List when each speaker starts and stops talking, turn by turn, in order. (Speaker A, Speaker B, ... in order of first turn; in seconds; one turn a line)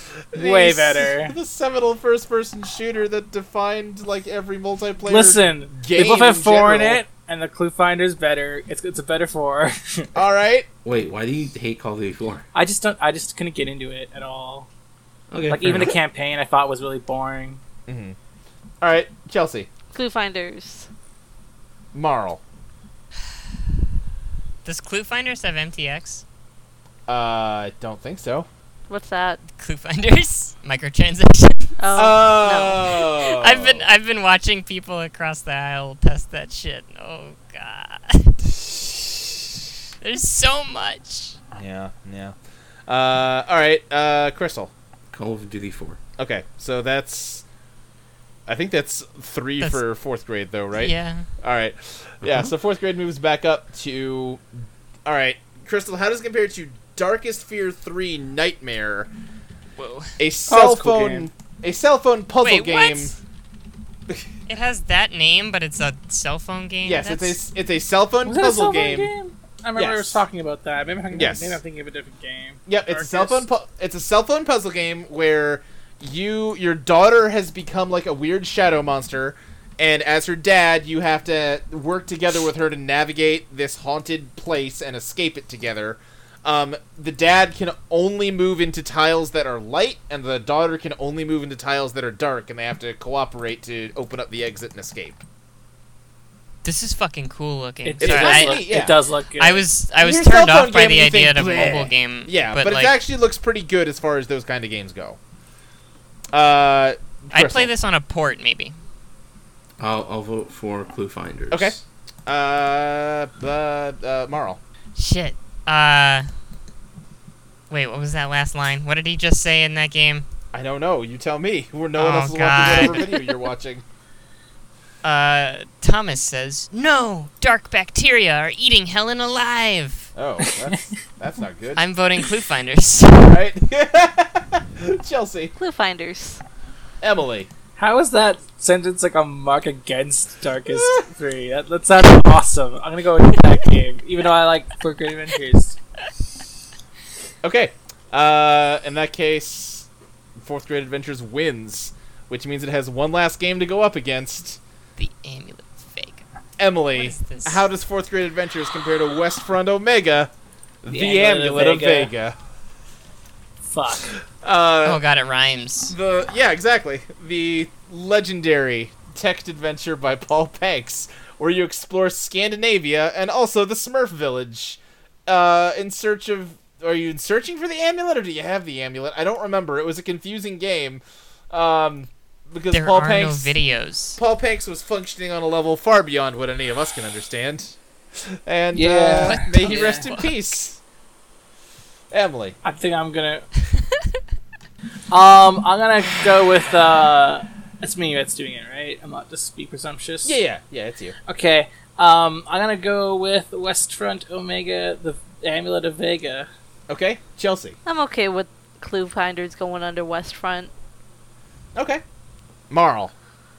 Speaker A: 0.3-7.0
Speaker B: 0.3-1.4
Speaker B: 5.1-10.1
Speaker A: 10.1-10.7
Speaker C: 10.8-12.4
Speaker B: 12.5-14.7
Speaker C: 15.3-16.0
Speaker B: 15.5-17.6
Speaker A: 17.9-18.1
Speaker A: 18.8-19.7
Speaker D: 19.9-20.9
Speaker A: 21.9-22.4
Speaker E: 24.6-26.2
Speaker A: 27.1-28.5
Speaker D: 28.9-29.4
Speaker E: 29.6-31.8
Speaker D: 31.8-32.8
Speaker A: 31.9-33.9
Speaker E: 33.3-38.4
Speaker E: 40.0-41.4
Speaker A: 41.5-42.3
Speaker A: 42.9-44.7
Speaker C: 45.1-46.0
Speaker A: 46.2-47.4
Speaker A: 48.5-54.4
Speaker E: 49.6-49.8
Speaker E: 50.8-51.3
Speaker C: 52.2-52.5
Speaker A: 55.0-59.1
Speaker E: 59.8-60.2
Speaker A: 60.2-63.1
Speaker B: 60.5-61.3
Speaker E: 62.4-63.1
Speaker E: 64.5-67.4
Speaker A: 66.8-69.1
Speaker B: 68.2-73.5
Speaker A: 69.7-70.2
Speaker A: 71.1-71.6
Speaker A: 72.7-95.2
Speaker E: 96.6-98.7
Speaker B: 97.8-99.6
Speaker A: 98.0-99.0
Speaker E: 99.4-103.0
Speaker A: 100.0-105.2
Speaker A: 106.3-107.7
Speaker E: 107.3-108.8
Speaker C: 109.8-111.8
Speaker A: 112.2-114.6
Speaker E: 115.0-116.3
Speaker E: 117.7-120.3
Speaker A: 120.5-123.8
Speaker E: 122.0-123.0
Speaker E: 125.0-130.1
Speaker A: 130.1-131.8
Speaker E: 131.8-133.4
Speaker A: 133.3-135.5
Speaker D: 135.6-136.4
Speaker A: 137.0-137.5
Speaker B: 137.8-145.8
Speaker A: 147.4-149.9
Speaker A: 150.4-154.6
Speaker E: 155.0-156.2
Speaker A: 156.6-160.3
Speaker E: 156.9-157.7
Speaker A: 160.8-162.3
Speaker B: 160.9-162.1
Speaker B: 163.6-164.1
Speaker A: 164.4-165.0
Speaker E: 164.8-165.9
Speaker A: 165.9-183.6
Speaker E: 182.7-184.2
Speaker A: 184.2-187.8
Speaker A: 188.3-190.8
Speaker B: 188.7-190.0
Speaker E: 189.2-190.3
Speaker A: 192.1-192.6
Speaker B: 192.6-193.4
Speaker B: 195.1-200.4
Speaker A: 200.2-201.2
Speaker B: 201.3-206.5
Speaker A: 206.9-207.8
Speaker D: 207.8-210.7
Speaker A: 211.7-212.0
Speaker A: 212.7-213.1